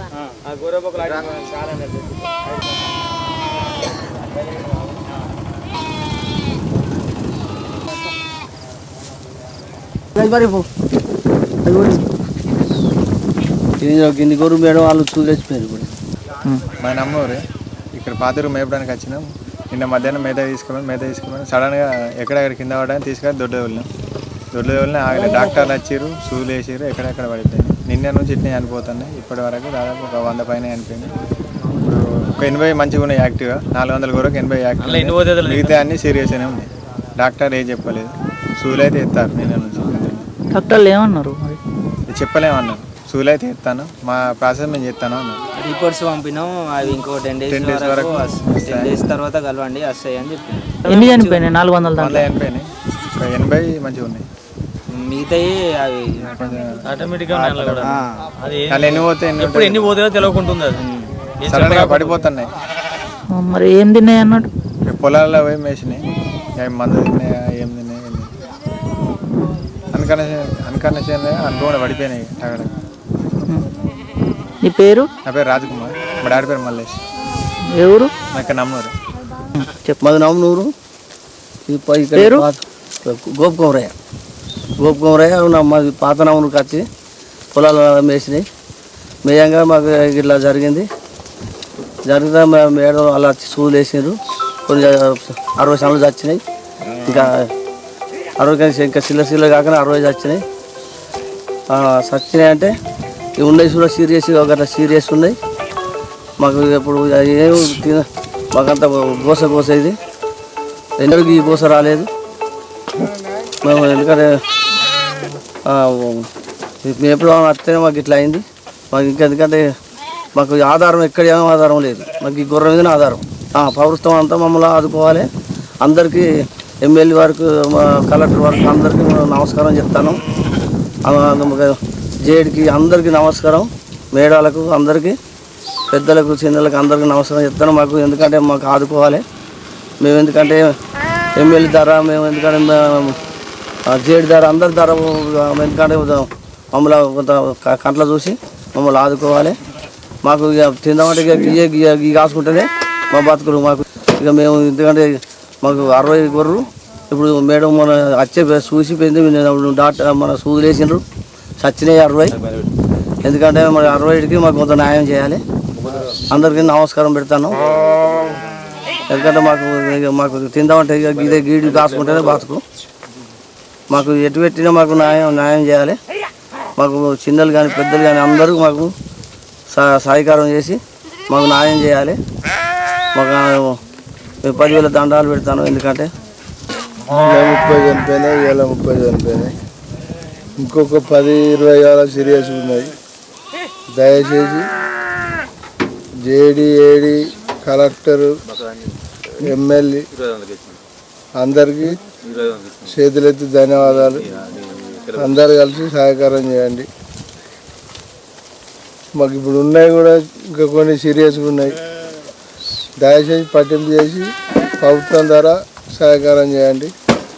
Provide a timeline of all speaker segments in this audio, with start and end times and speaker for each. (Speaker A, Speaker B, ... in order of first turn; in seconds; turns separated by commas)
Speaker A: 10.2-10.7, Speaker A: 11.6-12.0, Speaker A: 13.8-15.9, Speaker B: 16.7-17.4, Speaker B: 17.9-23.9, Speaker B: 24.5-31.1, Speaker B: 31.8-40.3, Speaker C: 34.8-35.8, Speaker D: 40.5-41.6, Speaker B: 42.1-45.4, Speaker E: 45.6-51.4, Speaker B: 47.5-48.9, Speaker D: 50.9-52.2, Speaker B: 52.0-54.2, Speaker E: 54.9-56.3, Speaker B: 56.3-56.8, Speaker C: 56.9-60.8, Speaker E: 57.3-58.0, Speaker B: 58.7-60.0, Speaker E: 60.8-61.1, Speaker C: 61.4-62.2, Speaker B: 61.4-62.5, Speaker D: 63.3-64.5, Speaker B: 64.9-66.0, Speaker B: 66.6-68.3, Speaker D: 69.3-69.7, Speaker B: 69.9-72.7, Speaker D: 74.6-75.1, Speaker B: 75.2-77.0, Speaker D: 77.7-78.1, Speaker B: 78.3-78.9, Speaker D: 79.5-80.0, Speaker A: 80.0-80.7, Speaker A: 81.7-83.9, Speaker D: 82.1-82.5, Speaker A: 84.8-86.9, Speaker A: 87.5-88.5, Speaker A: 89.2-90.9, Speaker A: 92.0-96.4, Speaker A: 97.0-97.5, Speaker A: 98.4-100.4, Speaker A: 101.7-102.8, Speaker A: 103.3-105.4, Speaker A: 106.4-110.0, Speaker A: 111.0-112.1, Speaker A: 113.6-114.4, Speaker A: 115.6-116.3, Speaker A: 116.8-119.8, Speaker A: 120.3-125.3, Speaker A: 125.8-130.2, Speaker A: 131.0-135.2, Speaker A: 135.9-139.2, Speaker A: 140.0-140.8, Speaker A: 141.3-143.2, Speaker A: 143.8-149.6, Speaker A: 150.2-161.0, Speaker A: 161.6-162.3, Speaker A: 163.2-165.4, Speaker A: 166.3-167.6, Speaker A: 169.1-172.6, Speaker A: 173.9-176.0, Speaker A: 176.8-178.9, Speaker A: 179.7-182.2, Speaker A: 183.1-183.8, Speaker A: 184.4-186.1, Speaker F: 187.2-189.6, Speaker F: 190.6-192.9, Speaker F: 193.9-194.7, Speaker F: 196.2-198.3, Speaker F: 199.4-200.1, Speaker F: 201.4-202.0, Speaker F: 202.8-204.3, Speaker F: 205.1-206.9, Speaker F: 209.1-211.8, Speaker F: 213.0-216.9